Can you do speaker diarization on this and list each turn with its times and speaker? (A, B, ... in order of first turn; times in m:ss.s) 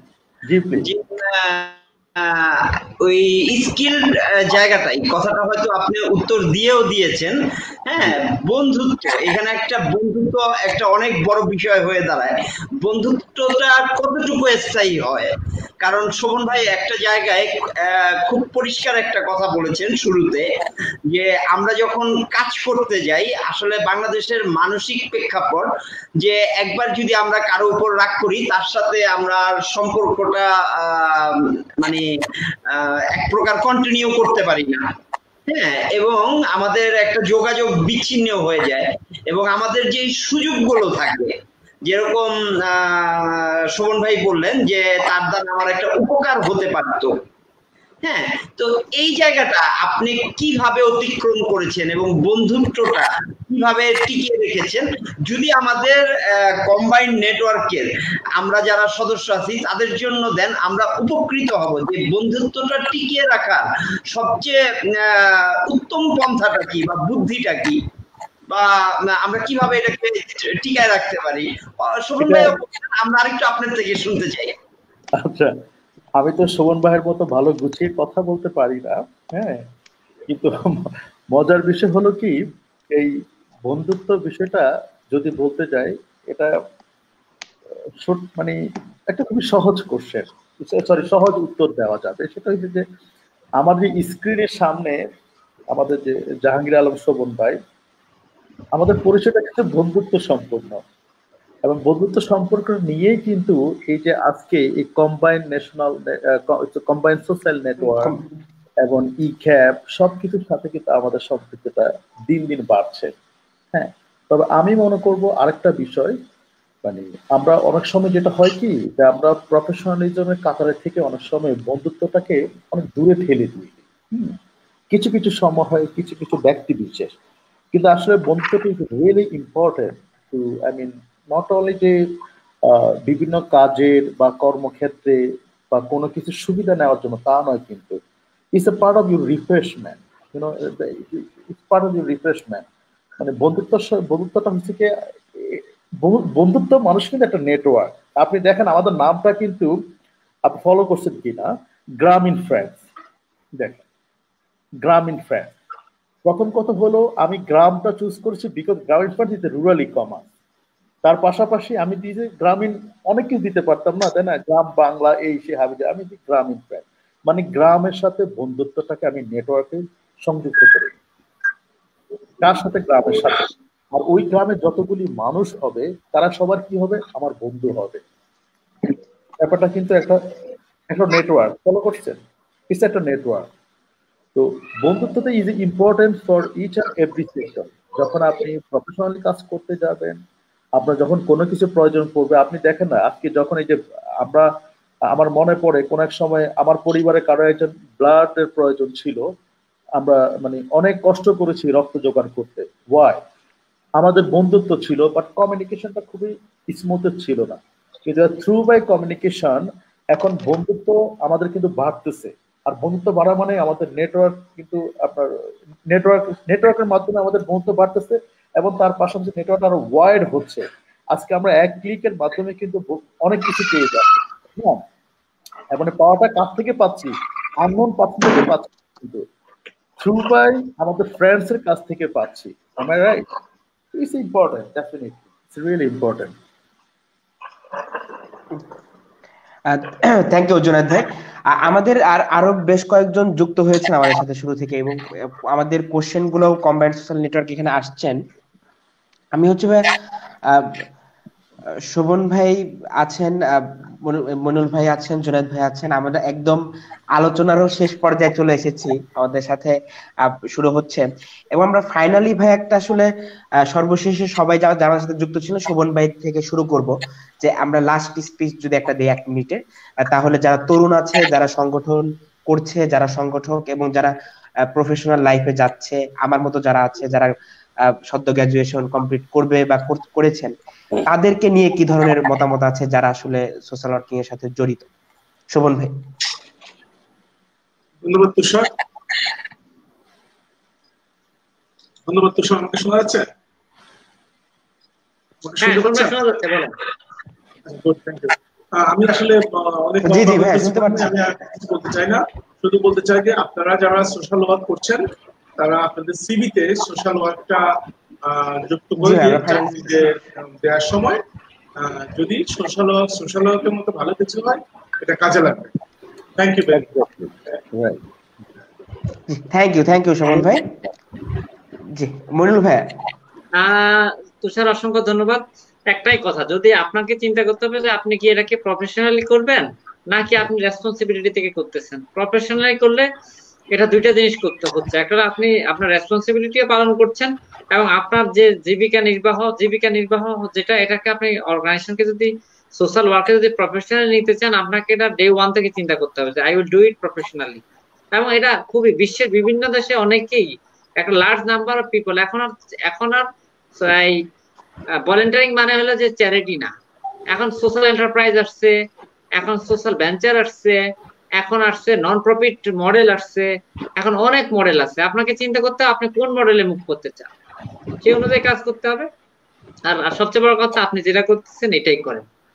0:00.5-0:00.9 A
0:00.8-0:20.5 B
0:21.1-0:32.0 B
0:32.7-0:34.9 B
0:35.5-0:41.3 B
0:41.8-0:47.2 B
0:48.0-1:07.8 B
1:08.5-1:14.6 B
1:12.2-1:12.6 A
1:15.2-1:15.5 A
1:16.2-1:19.7 A
1:20.3-1:22.4 A
1:22.9-1:23.1 A
1:23.6-1:26.5 A
1:28.0-1:28.6 A
1:29.1-1:32.8 A
1:33.6-1:35.0 A
1:35.7-1:37.6 A
1:38.7-1:40.8 A
1:41.6-1:48.2 A
1:48.8-1:53.1 A
1:53.7-1:56.2 A
1:56.8-2:04.4 A
2:04.9-2:07.2 A
2:07.7-2:12.1 A
2:12.6-2:15.2 A
2:15.7-2:18.0 A
2:18.5-2:22.7 A
2:23.2-2:29.7 A
2:30.5-2:32.8 A
2:33.6-2:33.8 A
2:34.8-2:35.6 A
2:36.2-2:40.3 A
2:41.0-2:51.0 A
2:52.4-2:58.0 A
2:58.8-3:00.2 A
3:00.9-3:03.5 A
3:04.4-3:10.2 A
3:10.8-3:14.5 A
3:15.1-3:19.2 A
3:20.0-3:23.2 A
3:24.0-3:35.3 A
3:35.9-3:44.8 A
3:45.7-3:49.3 A
3:50.0-3:53.3 A
3:53.9-3:56.3 A
3:59.7-4:08.2 C
4:09.4-4:09.9 C
4:10.5-4:10.8 C
4:11.9-4:16.6 C
4:17.2-4:23.1 C
4:23.7-4:34.1 C
4:34.7-4:37.4 C
4:37.9-4:40.5 C
4:41.1-4:44.9 C
4:45.5-4:46.0 C
4:48.0-4:48.7 D
4:52.1-4:53.2 D
4:55.4-4:56.2 D
4:55.6-4:56.8 E
4:57.7-5:05.0 D
5:00.0-5:01.1 C
5:05.6-5:07.7 D
5:08.3-5:11.2 D
5:09.0-5:10.0 C
5:11.8-5:15.7 D
5:16.4-5:16.9 D
5:16.7-5:18.0 A
5:19.3-5:20.7 C
5:20.4-5:20.6 A
5:21.9-5:22.9 C
5:23.6-5:33.1 E
5:33.7-5:47.6 E
5:48.1-5:54.2 E
5:55.1-5:56.7 E
5:57.3-5:58.7 E
5:59.4-6:00.8 E
6:01.4-6:07.3 E
6:08.0-6:09.1 E
6:09.8-6:12.2 E